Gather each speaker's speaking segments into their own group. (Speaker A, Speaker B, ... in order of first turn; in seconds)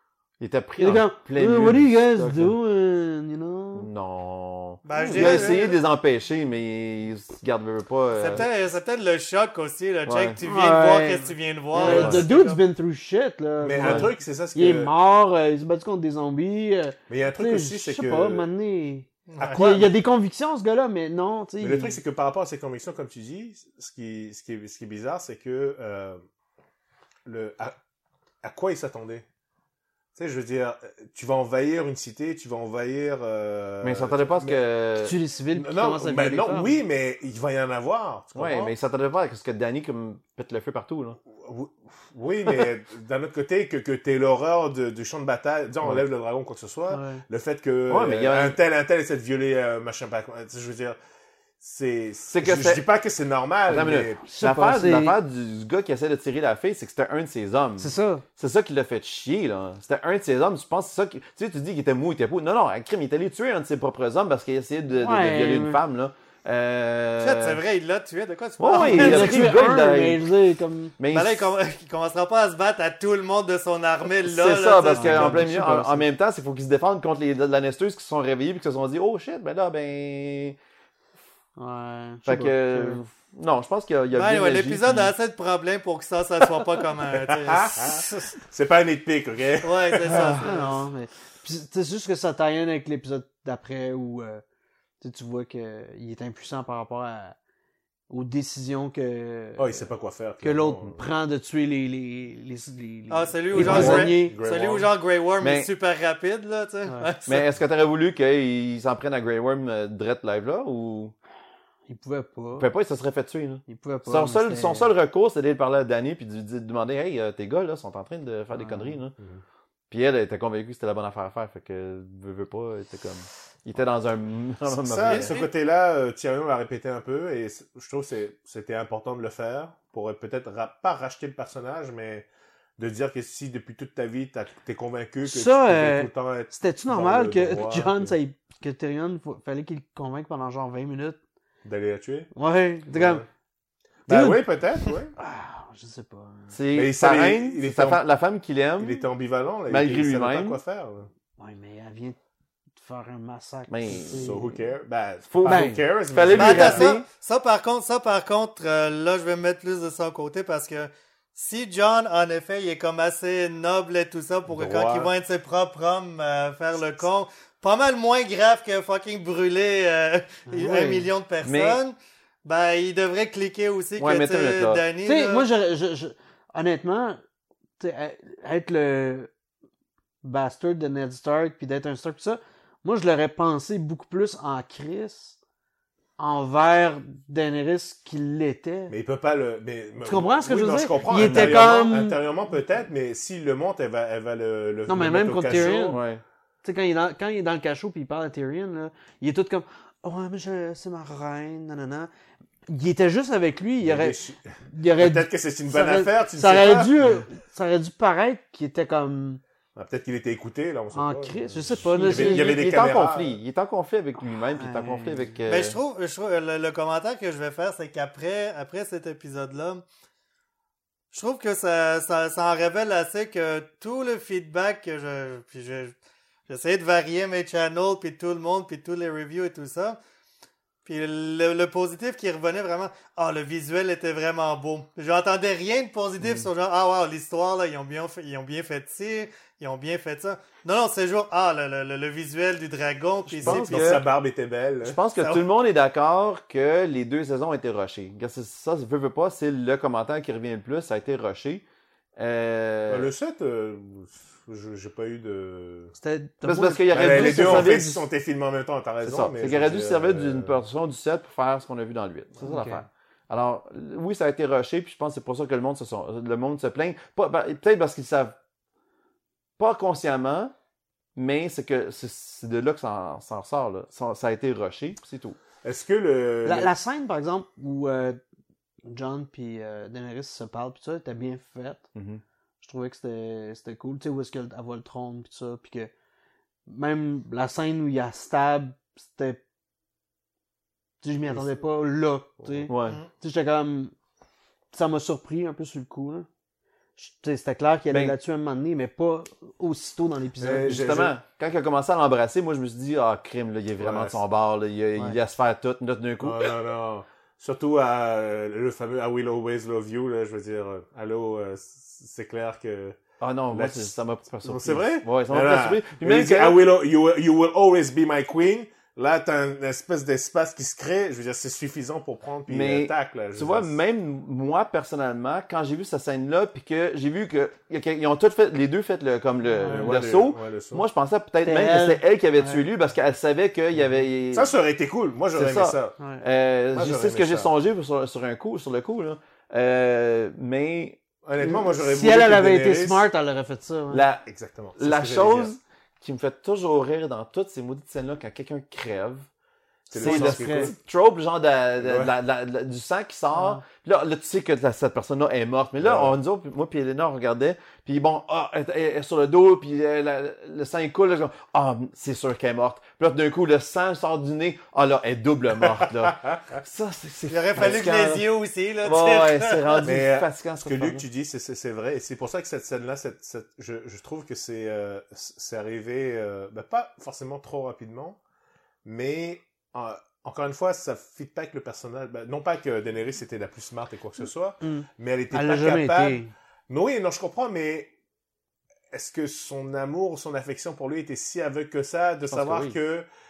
Speaker A: 0.4-2.5, 3.8-8.5, 10.1-10.4, 11.8-12.2, 13.8-14.1, 33.8-35.1, 38.4-41.2, 47.9-48.6, 52.3-52.8, 53.6-67.6, 68.6-70.3, 71.0-71.5, 74.2-80.6, 82.3-85.1, 103.6-104.1, 105.4-105.7, 107.3-111.1, 112.6-119.2, 119.9-125.4, 146.5-149.1, 149.7-150.6, 153.7-154.5, 155.3-157.0, 170.6-171.8, 174.0-174.8, 191.2-191.7, 195.9-196.2, 211.9-215.8, 243.3-244.1, 244.8-251.6, 252.2-253.1, 256.4-257.9, 259.0-268.4, 269.6-270.5, 271.2-275.4, 281.9-282.2, 292.7-293.0, 300.7-306.5, 313.2-316.6, 322.5-334.5, 335.3-341.0, 343.9-344.2, 344.8-349.3, 349.9-368.3, 368.8-371.1, 392.3-392.8
Speaker B: 0.8-3.9, 4.9-5.6, 10.4-22.0, 35.0-36.8, 46.9-47.2, 54.2-55.2, 57.8-58.2, 65.0-65.8, 68.7-71.0, 74.9-76.0, 81.6-83.0, 90.2-94.4, 95.0-97.4, 98.1-99.9, 100.4-104.4, 111.9-112.7, 113.7-114.9, 118.5-119.0, 135.2-141.2, 142.3-143.2, 144.1-144.5, 145.2-146.5, 151.4-152.2, 152.8-154.4, 155.4-155.8, 170.5-171.0, 175.0-177.2, 177.8-179.3, 180.2-185.4, 186.2-188.9, 190.0-192.2, 194.9-196.0, 196.6-202.1, 202.7-209.4, 210.9-212.6, 214.5-215.3, 256.0-258.0, 262.4-262.9, 276.4-278.2, 278.9-281.9, 282.6-285.9, 286.7-289.4, 291.0-293.9, 294.7-296.3, 297.0-300.9, 329.5-330.0, 331.4-332.6, 341.4-344.0, 349.9-350.7, 353.3-353.6, 384.6-386.3
Speaker C: 4.8-5.8, 8.2-12.6, 19.3-19.9, 67.2-69.5, 71.1-75.5, 84.1-88.3, 89.6-90.8, 103.1-107.5, 125.0-125.5, 156.3-175.5, 215.5-219.8, 221.1-225.9, 226.5-230.0, 230.9-244.0, 245.2-245.4, 367.3-369.9
Speaker D: 11.8-12.5, 13.6-14.9, 17.1-18.5, 19.4-19.9, 21.6-26.2, 27.2-27.8, 28.4-29.2, 30.1-34.6, 35.5-38.7, 41.3-51.0, 51.6-54.2, 75.1-75.5, 87.1-90.6, 99.6-101.0, 103.5-104.9, 119.2-119.4, 124.7-132.3, 132.8-138.1, 141.6-142.3, 142.9-143.2, 144.1-145.1, 146.7-148.0, 148.8-151.1, 154.1-156.9, 164.5-165.1, 188.9-196.0, 203.8-204.4, 204.9-207.2, 209.8-213.4, 243.4-245.0, 252.9-255.9, 256.9-260.6, 275.6-276.7, 291.3-291.6, 292.4-292.7, 300.4-301.2, 303.8-304.2, 306.2-313.0, 313.5-323.7, 329.6-330.9, 334.3-336.0, 336.7-337.5, 341.2-343.1, 344.2-345.5, 349.9-350.8, 351.8-352.1, 355.8-356.2, 369.8-378.2, 378.9-387.9, 388.9-393.1